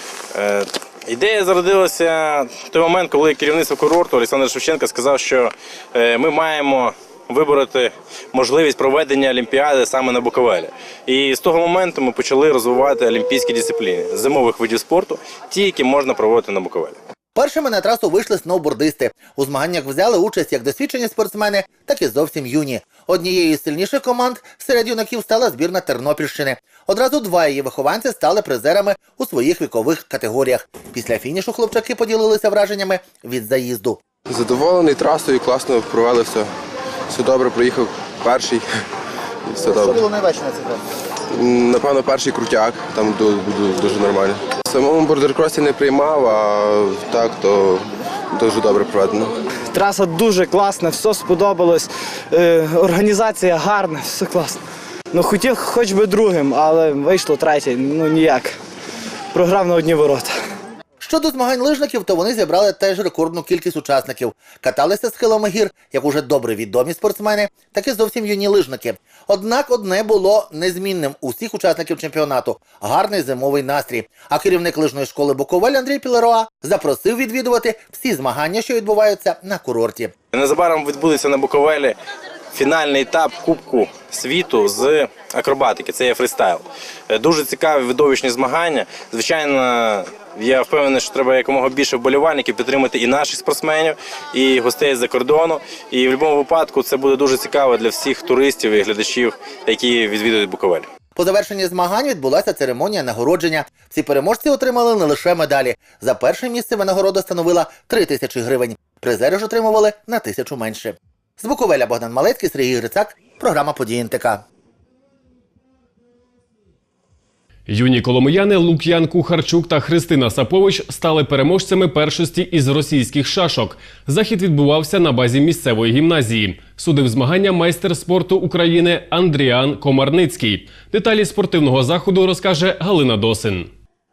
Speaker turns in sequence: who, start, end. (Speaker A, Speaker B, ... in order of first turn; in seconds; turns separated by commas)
Speaker A: 0.3-16.9, Speaker B: 17.4-34.0, Speaker C: 34.3-36.5, Speaker C: 37.1-38.6, Speaker C: 39.5-40.0, Speaker B: 39.6-40.8, Speaker C: 41.3-49.3, Speaker D: 49.7-54.6, Speaker D: 55.1-58.5, Speaker D: 59.3-60.3, Speaker B: 61.0-80.1, Speaker A: 80.3-81.9, Speaker A: 82.5-100.8, Speaker B: 101.1-114.4, Speaker E: 117.7-133.7